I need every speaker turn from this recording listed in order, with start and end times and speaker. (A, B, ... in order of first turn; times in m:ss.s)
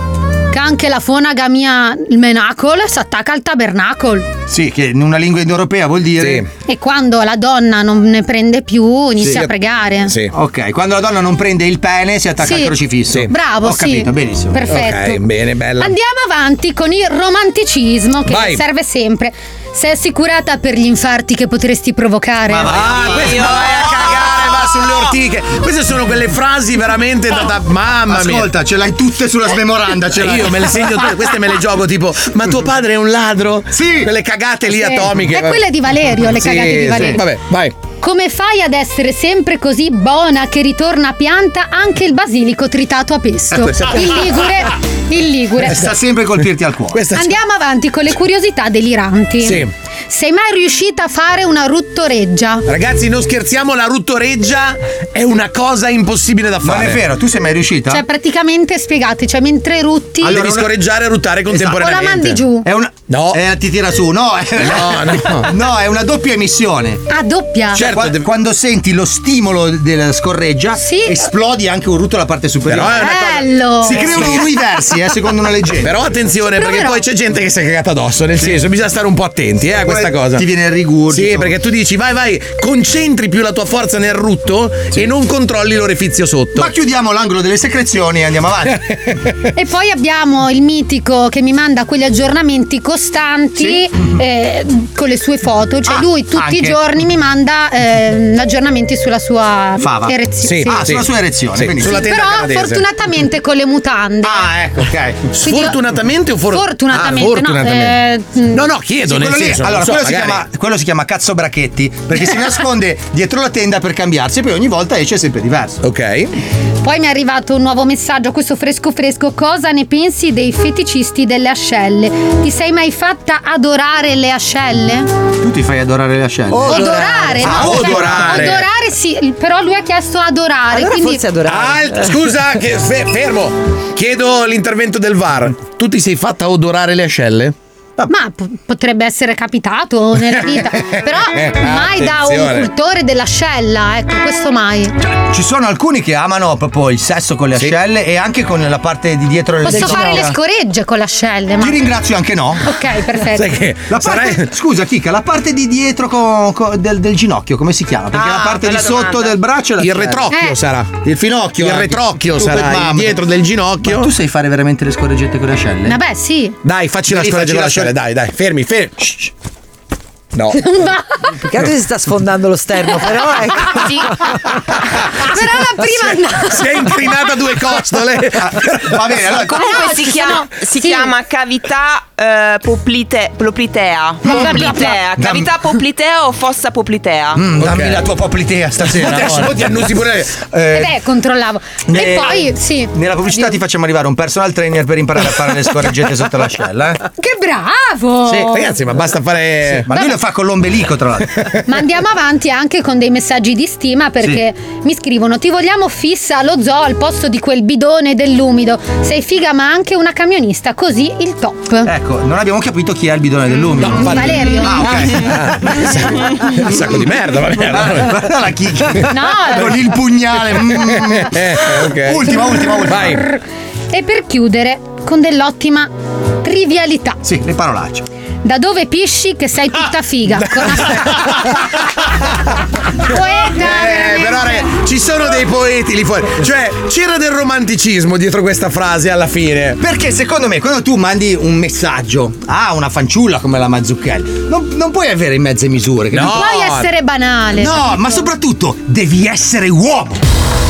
0:00.5-0:04.3 A
0:04.5-0:06.5 B
0:06.2-0:06.5 C
0:06.7-0:10.2 A
0:09.2-0:09.5 C
0:10.0-0:10.3 C
0:10.3-0:14.6 B
0:12.4-0:12.8 A
0:13.3-0:15.3 A
0:14.7-0:15.9 C
0:15.8-0:22.9 A
0:18.3-0:18.6 C
0:22.5-0:25.0 B
0:22.7-0:28.5 C
0:23.1-0:23.9 D
0:28.1-0:30.8 B
0:30.2-0:35.6 C
0:33.7-0:34.1 B
0:34.7-0:37.3 A
0:36.3-0:37.7 C
0:36.9-0:37.2 B
0:38.0-0:45.9 A
0:45.6-0:47.0 B
0:46.9-0:47.4 C
0:47.1-0:52.7 A
0:49.4-0:49.7 C
0:52.7-0:57.0 C
0:56.6-0:58.0 B
0:57.9-1:00.4 A
1:00.2-1:00.8 B
1:00.2-1:02.4 C
1:01.5-1:01.8 B
1:01.7-1:02.7 A
1:02.6-1:07.0 B
1:03.1-1:03.4 C
1:04.6-1:05.5 C
1:07.1-1:07.8 A
1:07.7-1:16.0 B
1:07.8-1:08.3 C
1:10.8-1:11.3 A
1:12.7-1:13.3 C
1:12.9-1:14.3 A
1:13.9-1:14.4 C
1:15.8-1:20.4 C
1:16.5-1:17.0 A
1:19.7-1:21.6 B
1:21.1-1:26.7 C
1:26.6-1:28.9 B
1:29.5-1:40.9 A
1:35.9-1:36.8 B
1:39.8-1:42.1 B
1:40.4-1:42.9 C
1:41.8-1:44.5 A
1:44.2-1:45.2 B
1:45.3-1:48.0 C
1:45.4-1:45.8 A
1:46.5-1:48.7 A
1:48.5-1:50.4 C
1:49.1-1:55.8 B
1:55.8-1:56.3 C
1:56.8-2:05.1 A
2:05.4-2:08.6 B
2:06.5-2:07.5 E
2:06.7-2:11.2 A
2:07.4-2:08.6 C
2:10.7-2:12.3 E
2:11.5-2:18.1 C
2:18.1-2:25.0 A
2:20.3-2:22.7 C
2:25.2-2:30.4 B
2:29.6-2:31.8 A
2:29.8-2:30.2 E
2:31.6-2:32.6 B
2:32.6-2:33.6 A
2:33.3-2:34.5 C
2:33.9-2:40.3 B
2:38.1-2:39.3 D
2:39.8-2:41.0 C
2:40.3-2:40.6 A
2:41.0-2:43.2 B
2:41.6-2:44.1 C
2:43.8-2:46.0 B
2:45.9-2:46.6 A
2:46.6-2:49.0 C
2:47.1-2:47.9 B
2:49.0-2:49.3 B
2:50.4-2:50.6 C
2:50.5-2:51.4 A
2:51.4-2:54.3 E
2:55.2-2:57.0 A
2:56.1-2:59.0 C
2:58.4-3:00.0 B
2:59.5-3:07.4 D
2:59.5-3:01.1 A
3:04.2-3:05.0 A
3:04.3-3:05.6 B
3:07.3-3:09.8 B
3:07.6-3:08.0 C
3:08.9-3:10.3 C
3:10.3-3:10.9 B
3:10.7-3:13.5 A
3:11.9-3:17.0 B
3:17.2-3:18.7 A
3:18.4-3:19.9 C
3:19.8-3:21.4 B
3:21.7-3:31.9 A
3:31.8-3:37.0 B
3:33.8-3:38.3 C
3:34.0-3:35.0 A
3:37.6-3:43.2 B
3:39.1-3:39.8 A
3:40.7-3:42.3 C
3:42.9-3:43.2 C
3:43.1-3:43.4 A
3:43.9-3:45.9 A
3:46.4-3:47.2 A
3:47.2-3:48.1 B
3:48.4-3:51.3 A
3:50.5-3:51.4 C
3:53.0-3:54.7 A
3:53.6-3:59.8 C
3:59.8-4:06.4 B
4:06.1-4:06.9 C
4:06.2-4:08.2 A
4:07.5-4:10.2 B